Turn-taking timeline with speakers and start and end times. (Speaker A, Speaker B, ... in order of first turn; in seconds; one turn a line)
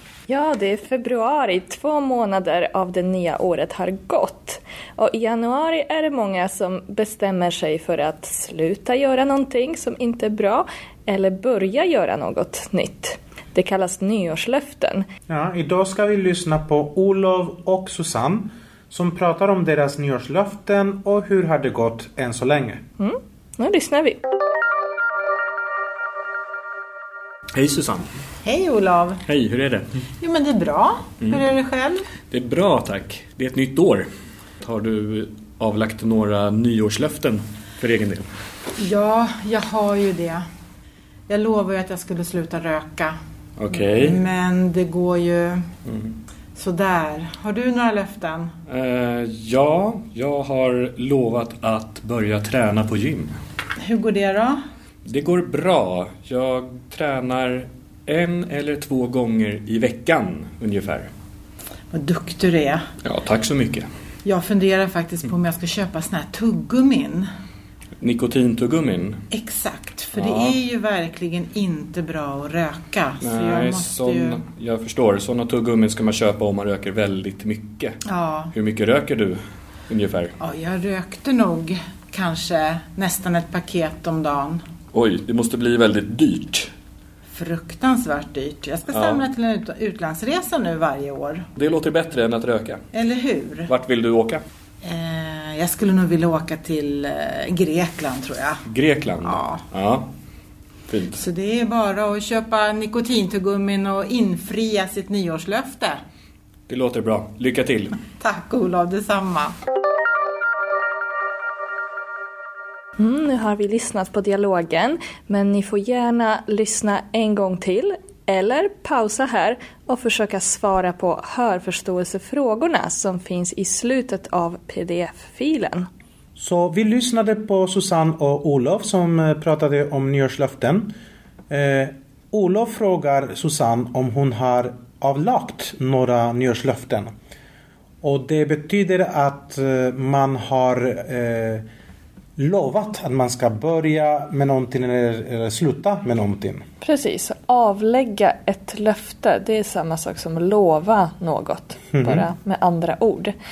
Speaker A: 0.3-15.0
Speaker B: 15.3-22.8
Speaker A: 23.0-24.2
Speaker C: 27.5-28.1
Speaker D: 28.4-29.2
Speaker C: 29.3-29.8
Speaker D: 30.2-32.0
Speaker C: 32.3-34.1
Speaker C: 34.6-38.3
Speaker D: 38.8-40.4
Speaker D: 41.3-43.1
Speaker C: 43.6-44.2
Speaker D: 43.8-45.6
Speaker C: 45.9-46.1
Speaker D: 46.5-48.5
Speaker C: 48.7-53.4
Speaker D: 53.8-54.6
Speaker C: 55.0-61.1
Speaker D: 61.9-62.8
Speaker C: 63.0-63.9
Speaker D: 64.2-67.3
Speaker C: 68.0-69.2
Speaker D: 69.3-74.4
Speaker C: 70.1-70.6
Speaker C: 73.2-78.0
Speaker D: 78.0-78.5
Speaker C: 78.5-80.3
Speaker D: 80.4-84.6
Speaker C: 84.9-86.7
Speaker D: 87.3-91.5
Speaker C: 88.9-89.2
Speaker C: 91.6-92.8
Speaker D: 92.9-93.7
Speaker C: 93.7-94.4
Speaker D: 94.8-98.6
Speaker C: 98.7-100.1
Speaker D: 99.2-99.6
Speaker C: 100.9-101.2
Speaker D: 101.2-106.0
Speaker C: 106.7-108.0
Speaker D: 108.1-109.5
Speaker A: 113.0-125.9
Speaker B: 126.4-130.9
Speaker B: 131.5-137.1
Speaker B: 138.0-141.6
Speaker B: 142.4-146.6
Speaker A: 146.8-153.3
Speaker B: 151.9-152.2